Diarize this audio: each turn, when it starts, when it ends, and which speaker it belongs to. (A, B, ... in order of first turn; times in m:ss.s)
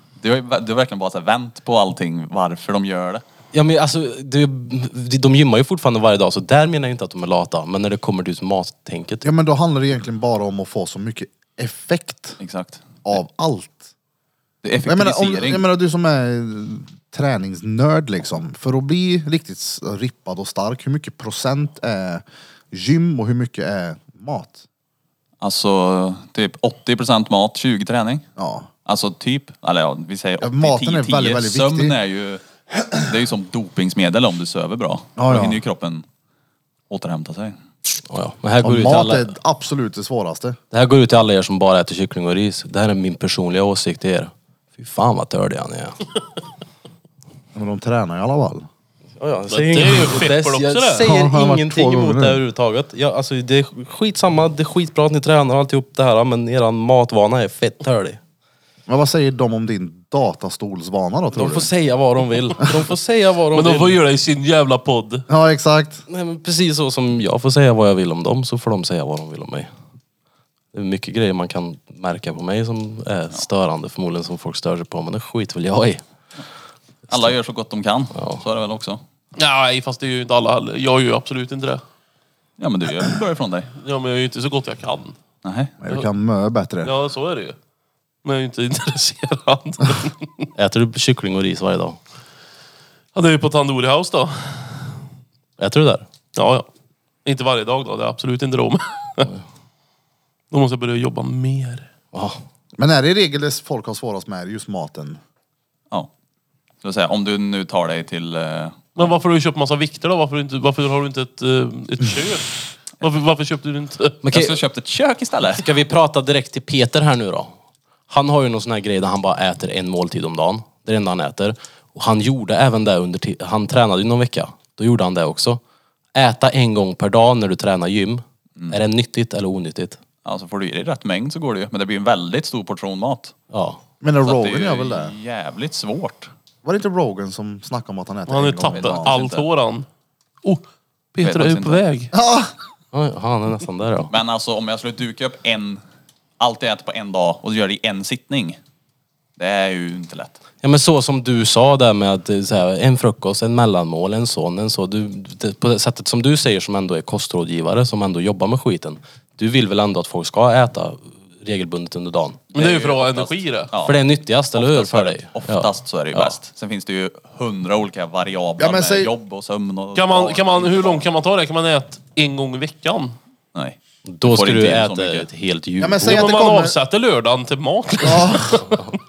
0:00.2-0:03.2 A
0:03.5-0:09.3 B
0:09.2-0:12.4 C
0:12.4-0:12.9 A
0:13.0-0:13.9 C
0:14.6-0:15.6 A
0:14.9-0:24.6 C
0:25.4-0:28.2 A
0:28.4-0:28.7 C
0:28.9-0:36.0 A
0:30.4-0:32.0 C
0:35.2-0:35.6 C
0:36.9-0:37.6 A
0:38.1-0:39.3 B
0:38.6-0:40.6 C
0:40.7-0:46.0 B
0:47.5-0:48.7 C
0:49.2-0:58.2 B
0:49.5-0:51.1 D
0:51.0-0:52.4 C
0:58.9-1:01.7 C
1:01.3-1:04.0 B
1:03.5-1:05.3 D
1:05.3-1:06.0 C
1:06.1-1:09.7 B
1:10.7-1:16.0 B
1:17.1-1:19.0 A
1:18.1-1:18.4 B
1:19.4-1:21.8 D
1:22.6-1:23.7 A
1:23.8-1:25.2 D
1:25.4-1:25.7 A
1:25.8-1:26.9 C
1:26.8-1:27.6 D
1:28.2-1:30.5 D
1:30.6-1:32.0 B
1:33.2-1:34.9 D
1:35.6-1:36.0 B
1:36.4-1:36.7 D
1:37.2-1:39.3 D
1:40.5-1:41.9 D
1:42.1-1:42.4 B
1:42.8-1:45.2 C
1:46.8-1:49.1 A
1:49.0-1:54.2 D
1:54.2-1:54.6 B
1:54.3-1:55.6 A
1:55.5-1:57.6 B
1:58.1-2:05.6 B
2:06.2-2:10.0 B
2:10.2-2:13.3 A
2:13.5-2:13.8 B
2:14.0-2:15.2 C
2:14.2-2:16.3 A
2:16.6-2:19.2 C
2:18.3-2:19.9 D
2:18.7-2:19.5 A
2:21.2-2:22.1 D
2:21.2-2:21.8 A
2:22.1-2:22.5 C
2:22.9-2:24.1 B
2:24.1-2:25.8 A
2:26.4-2:28.6 A
2:29.4-2:30.4 A
2:30.6-2:42.4 B
2:42.5-2:44.0 A
2:42.6-2:43.7 D
2:43.8-2:46.4 B
2:44.6-2:51.1 A
2:48.6-2:49.1 C
2:50.0-2:53.2 D
2:53.6-2:55.3 A
2:54.1-2:56.2 B
2:55.8-2:56.8 C
2:56.1-2:58.9 D
2:58.0-2:58.7 C